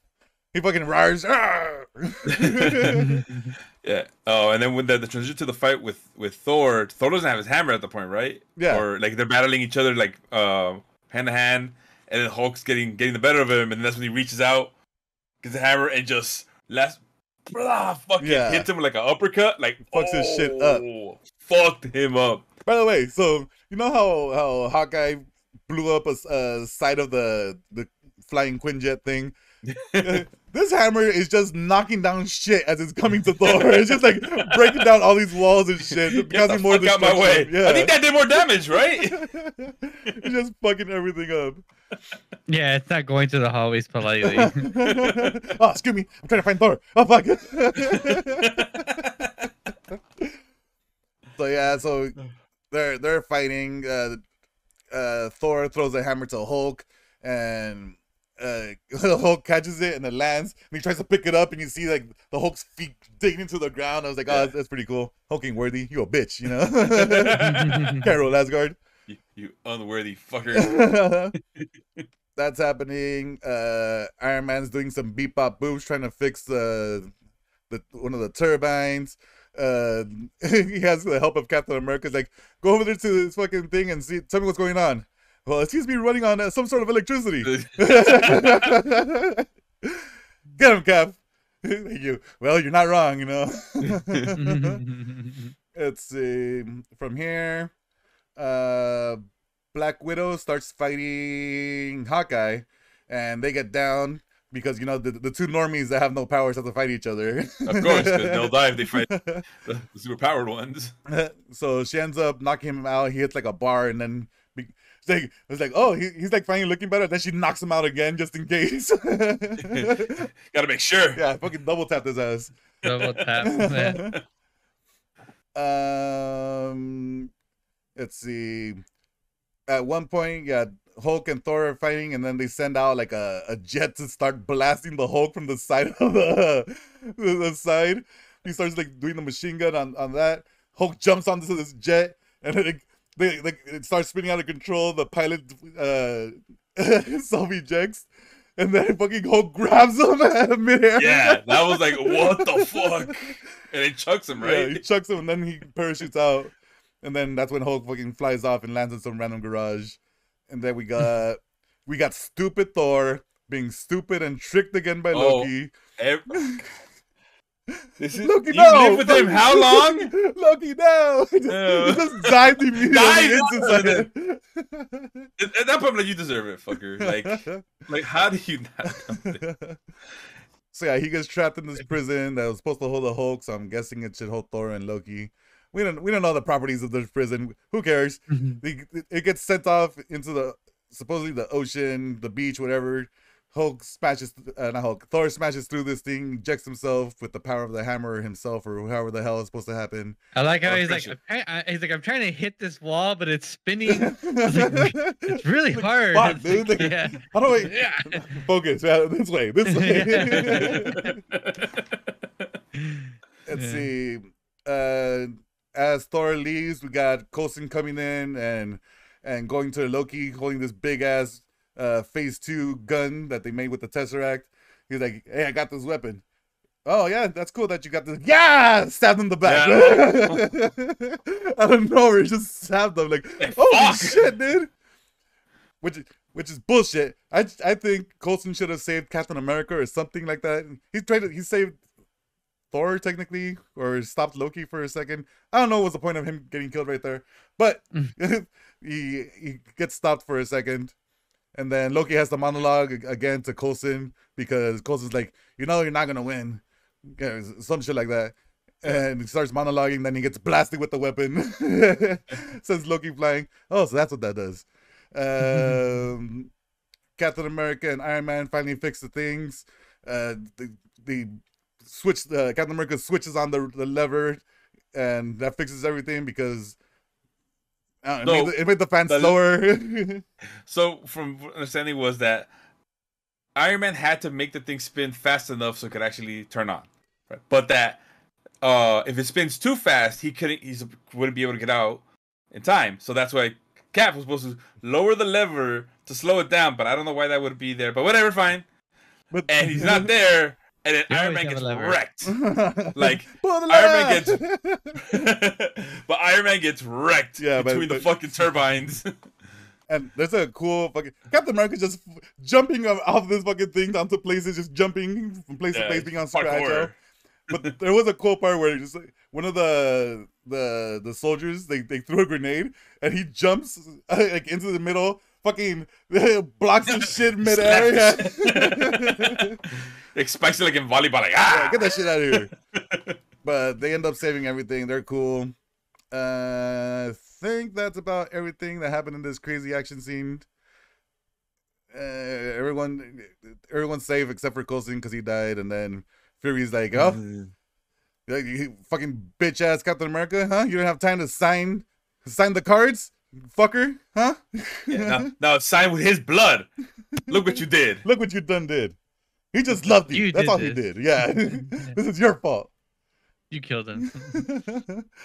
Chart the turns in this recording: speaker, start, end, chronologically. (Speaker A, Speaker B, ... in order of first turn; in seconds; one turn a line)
Speaker A: 0.5-3.2
Speaker B: 2.3-3.2
Speaker C: 3.0-3.3
Speaker B: 3.8-14.7
Speaker A: 8.6-8.8
Speaker B: 15.4-22.5
Speaker A: 18.2-18.7
Speaker A: 19.9-20.8
Speaker A: 22.6-29.4
Speaker B: 29.6-30.2
Speaker A: 30.0-37.9
Speaker B: 33.2-34.9
Speaker B: 35.9-39.3
Speaker A: 39.0-41.6
Speaker C: 42.5-44.7
Speaker A: 44.3-49.1
Speaker B: 44.8-45.3
Speaker B: 47.9-49.3
Speaker A: 49.9-50.4
Speaker A: 51.4-52.1
Speaker A: 52.7-54.2
Speaker A: 54.9-68.8
Speaker B: 64.3-64.5
Speaker B: 66.5-68.1
Speaker C: 67.4-68.1
Speaker B: 69.1-72.0
Speaker A: 70.5-71.3
Speaker A: 72.3-77.1
Speaker A: 77.7-90.0
Speaker B: 87.4-88.8
Speaker A: 90.6-94.8
Speaker B: 93.8-94.3
Speaker C: 94.4-95.5
Speaker A: 95.7-97.7
Speaker A: 98.4-99.2
Speaker A: 99.7-109.4
Speaker B: 107.7-110.9
Speaker A: 111.1-120.3
Speaker B: 119.6-121.2
Speaker A: 121.2-122.5
Speaker B: 122.8-123.3
Speaker C: 122.8-124.0
Speaker A: 123.4-124.1
Speaker B: 123.9-124.2
Speaker A: 125.5-127.3
Speaker A: 128.0-128.8
Speaker A: 129.7-153.4
Speaker B: 151.0-154.8
Speaker A: 154.4-165.7
Speaker B: 165.1-166.6
Speaker A: 166.3-166.6
Speaker A: 167.7-175.3
Speaker B: 168.0-170.1
Speaker B: 171.5-174.1
Speaker B: 175.4-179.4
Speaker A: 177.0-177.7
Speaker A: 178.9-179.8
Speaker A: 180.7-200.2
Speaker C: 188.3-188.6
Speaker C: 200.3-208.4
Speaker B: 200.6-201.2
Speaker A: 203.8-211.2
Speaker C: 209.7-210.9
Speaker B: 210.2-212.5
Speaker A: 213.4-226.2
Speaker C: 213.6-213.9
Speaker A: 226.8-234.7
Speaker B: 229.4-230.5
Speaker B: 233.4-234.3
Speaker A: 235.8-241.8
Speaker A: 242.7-250.9
Speaker A: 251.5-266.5
Speaker C: 265.5-265.8
Speaker A: 267.2-274.4
Speaker A: 274.9-276.8
Speaker A: 278.0-280.2
Speaker B: 278.2-279.4
Speaker B: 280.6-282.5
Speaker B: 283.6-288.0
Speaker B: 288.6-298.6
Speaker A: 299.3-300.1
Speaker B: 299.5-302.4
Speaker C: 301.1-302.0
Speaker A: 302.2-305.2
Speaker B: 302.9-304.4
Speaker B: 305.0-309.1
Speaker A: 307.4-308.1
Speaker A: 309.9-316.9
Speaker B: 315.7-316.9
Speaker A: 317.5-329.6
Speaker B: 326.9-333.2
Speaker A: 331.5-332.5
Speaker A: 333.4-335.5
Speaker A: 336.1-340.4
Speaker A: 341.9-347.2
Speaker B: 346.9-347.5
Speaker A: 348.3-355.3
Speaker B: 354.9-356.7
Speaker B: 357.3-358.0
Speaker A: 358.0-358.9
Speaker A: 359.5-362.7
Speaker C: 360.1-361.9
Speaker C: 363.5-364.4
Speaker A: 364.3-365.1